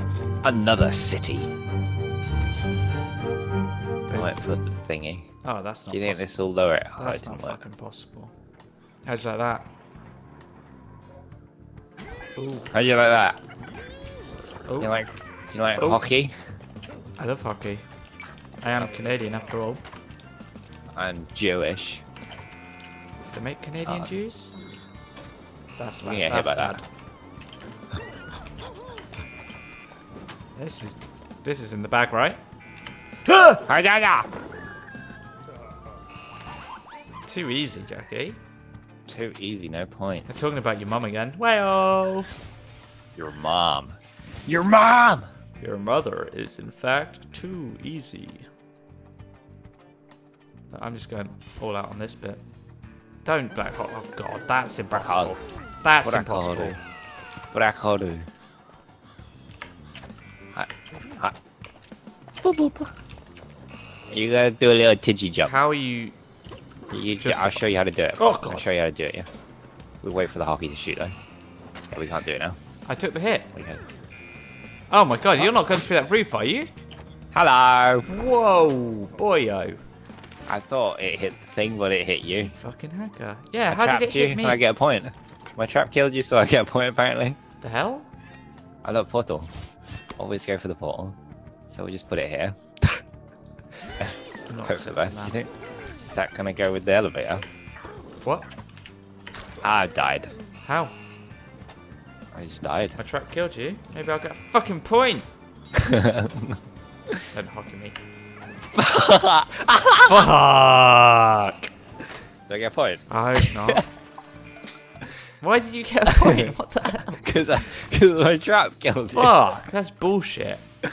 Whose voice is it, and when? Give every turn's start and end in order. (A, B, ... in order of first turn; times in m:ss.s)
0:00.4-0:01.5 A
0:04.1-0:05.3 A
0:05.4-0:06.3 B
0:05.9-0:07.6 A
0:07.0-0:08.3 B
0:09.0-0:09.7 B
0:12.4-0:12.7 B
0:12.7-0:13.4 A
0:14.7-0:14.9 B
0:14.8-0:16.3 A
0:15.8-0:16.0 B
0:17.2-0:17.8 B
0:18.6-0:19.8 B
0:21.0-0:22.0 A
0:23.3-0:24.6 B
0:23.9-0:24.1 A
0:25.8-0:26.8 B
0:26.0-0:26.8 A
0:30.6-0:32.4 B
0:33.3-0:33.6 B
0:33.6-0:34.3 A
0:37.3-0:38.4 B
0:39.1-0:40.5 A
0:40.3-0:42.3 B
0:43.2-0:45.3 A
0:45.6-0:48.5 B
0:50.7-0:52.4 B
0:53.2-0:56.8 B
0:54.9-0:55.4 A
0:56.0-0:56.8 A
0:57.5-0:58.3 A
1:00.6-1:01.4 A
1:02.4-1:02.9 A
1:04.1-1:05.5 A
1:05.5-1:06.2 B
1:06.9-1:09.3 A
1:07.2-1:07.6 B
1:08.2-1:08.7 B
1:10.0-1:11.2 A
1:11.9-1:12.6 A
1:12.9-1:13.5 B
1:13.6-1:13.8 A
1:14.9-1:16.7 B
1:17.3-1:18.1 A
1:18.1-1:19.8 B
1:20.5-1:22.5 A
1:22.5-1:24.6 B
1:23.7-1:27.4 A
1:27.6-1:28.1 B
1:28.8-1:29.5 A
1:30.2-1:31.2 A
1:31.7-1:33.0 A
1:34.0-1:37.4 A
1:34.5-1:35.4 B
1:39.6-1:40.3 A
1:40.6-1:41.0 B
1:42.3-1:43.0 A
1:43.0-1:45.3 B
1:45.8-1:46.6 A
1:47.3-1:48.0 B
1:48.8-1:50.3 A
1:50.1-1:51.7 B
1:52.5-1:53.8 A
1:53.1-1:53.9 B
1:55.4-1:57.3 B
1:56.1-1:56.5 A
1:57.2-1:59.4 A
1:59.1-2:00.6 B